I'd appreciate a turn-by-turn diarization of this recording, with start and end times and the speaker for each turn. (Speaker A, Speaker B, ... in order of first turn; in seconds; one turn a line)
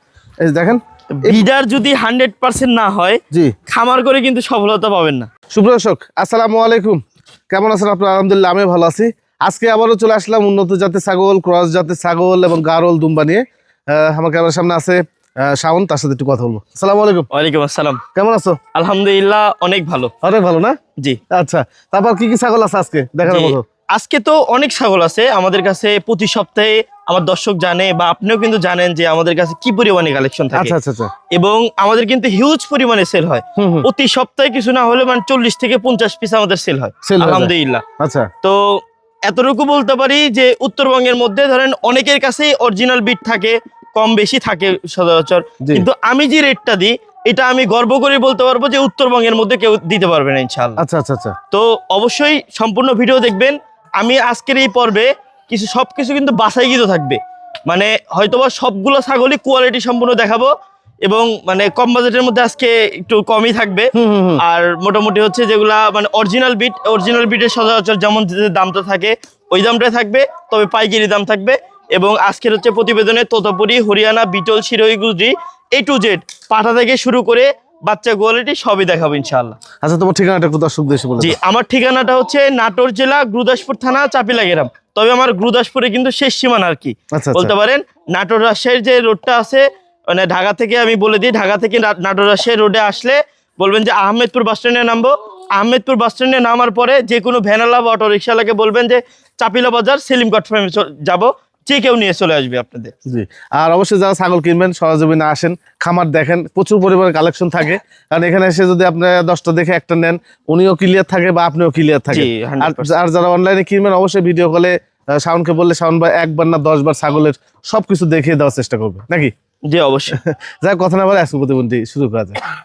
Speaker A: 0.4-1.4
Speaker B: 1.1-5.3
Speaker A: 5.5-17.3
Speaker B: 17.3-18.0
Speaker A: 18.1-18.6
Speaker B: 18.7-20.1
Speaker A: 20.2-20.8
Speaker A: 21.3-23.6
Speaker B: 23.3-30.7
Speaker A: 30.6-31.1
Speaker B: 31.3-37.8
Speaker A: 33.6-33.9
Speaker A: 37.0-38.3
Speaker B: 38.4-50.8
Speaker A: 45.6-45.9
Speaker A: 50.8-51.4
Speaker B: 51.5-60.5
Speaker B: 61.0-79.6
Speaker A: 64.0-64.4
Speaker A: 79.8-81.4
Speaker B: 81.2-102.9
Speaker A: 87.1-87.5
Speaker A: 103.1-119.3
Speaker B: 112.1-113.0
Speaker B: 119.7-120.2
Speaker A: 120.1-122.4